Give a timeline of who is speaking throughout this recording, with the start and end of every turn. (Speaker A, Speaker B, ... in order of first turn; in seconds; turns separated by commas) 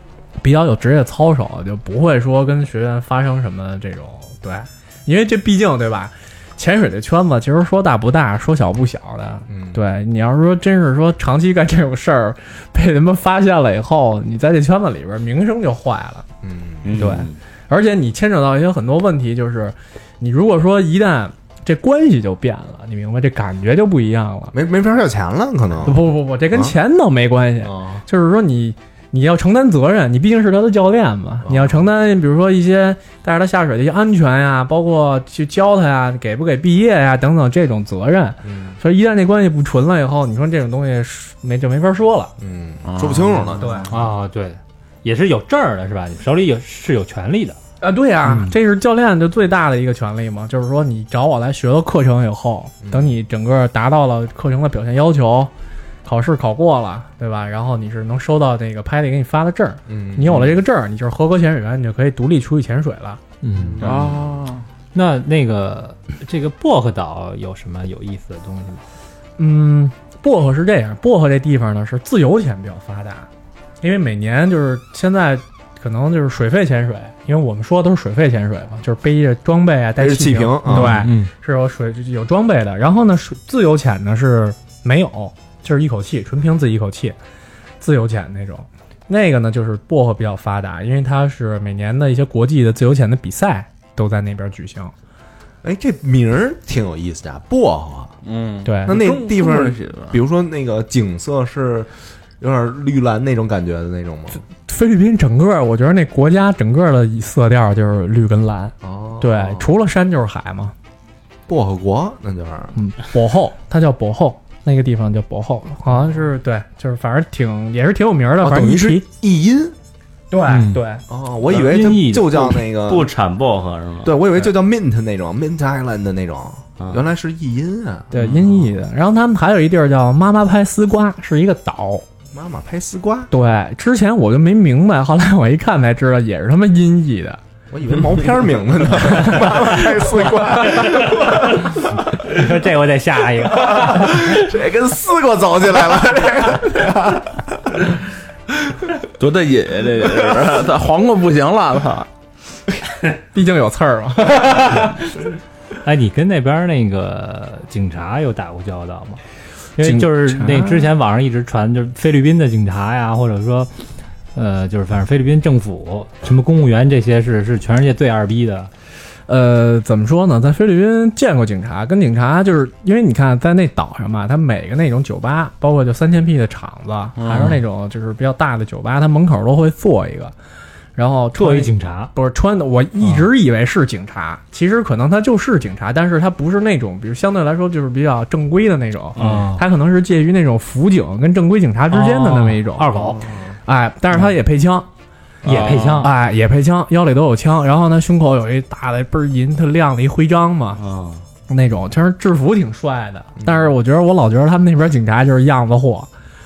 Speaker A: 0.4-16.2, Speaker B: 9.5-9.8, Speaker B: 16.4-17.1, Speaker C: 16.8-17.3, Speaker A: 16.9-24.5, Speaker B: 24.5-26.7, Speaker A: 25.8-42.3, Speaker B: 27.6-28.0, Speaker B: 31.4-31.9, Speaker B: 38.4-38.8, Speaker B: 42.4-43.9, Speaker D: 42.8-43.5, Speaker A: 43.6-43.9, Speaker E: 43.9-47.6, Speaker A: 47.8-55.5, Speaker E: 48.2-48.5, Speaker B: 52.8-53.2, Speaker A: 56.0-63.2, Speaker B: 59.9-60.6, Speaker E: 63.4-63.8, Speaker B: 63.6-64.2, Speaker D: 63.8-64.6, Speaker A: 63.8-64.1, Speaker E: 64.9-68.8, Speaker A: 69.4-73.3, Speaker A: 73.8-87.2, Speaker B: 80.0-81.1, Speaker E: 80.7-81.3, Speaker A: 87.8-94.9, Speaker B: 95.6-98.2, Speaker D: 98.2-100.2, Speaker A: 98.6-99.0, Speaker B: 98.8-104.4, Speaker A: 104.6-110.7, Speaker B: 108.8-109.7, Speaker B: 111.5-112.8, Speaker A: 112.8-119.0, Speaker B: 118.4-119.8, Speaker A: 120.3-121.0, Speaker E: 120.5-120.8, Speaker B: 121.1-123.1, Speaker E: 121.5-122.6, Speaker C: 122.8-124.2, Speaker B: 124.0-128.1, Speaker A: 128.1-132.0, Speaker C: 128.1-128.7, Speaker B: 132.3-133.3, Speaker A: 133.3-137.4, Speaker B: 137.7-141.7, Speaker A: 139.3-140.5, Speaker E: 142.2-144.2, Speaker B: 143.6-147.8, Speaker D: 149.2-152.1, Speaker A: 153.3-155.2, Speaker E: 155.8-159.2, Speaker E: 159.8-163.7, Speaker A: 159.8-160.9, Speaker E: 164.3-168.7, Speaker A: 169.3-180.3, Speaker D: 177.2-177.6, Speaker A: 180.9-193.1, Speaker E: 181.3-182.1, Speaker E: 189.2-189.6, Speaker E: 191.9-193.2, Speaker B: 193.0-193.5, Speaker A: 193.7-194.9, Speaker E: 195.4-196.1, Speaker D: 195.4-196.1, Speaker A: 196.0-200.8, Speaker C: 200.8-201.2, Speaker A: 201.5-206.1, Speaker B: 203.4-203.7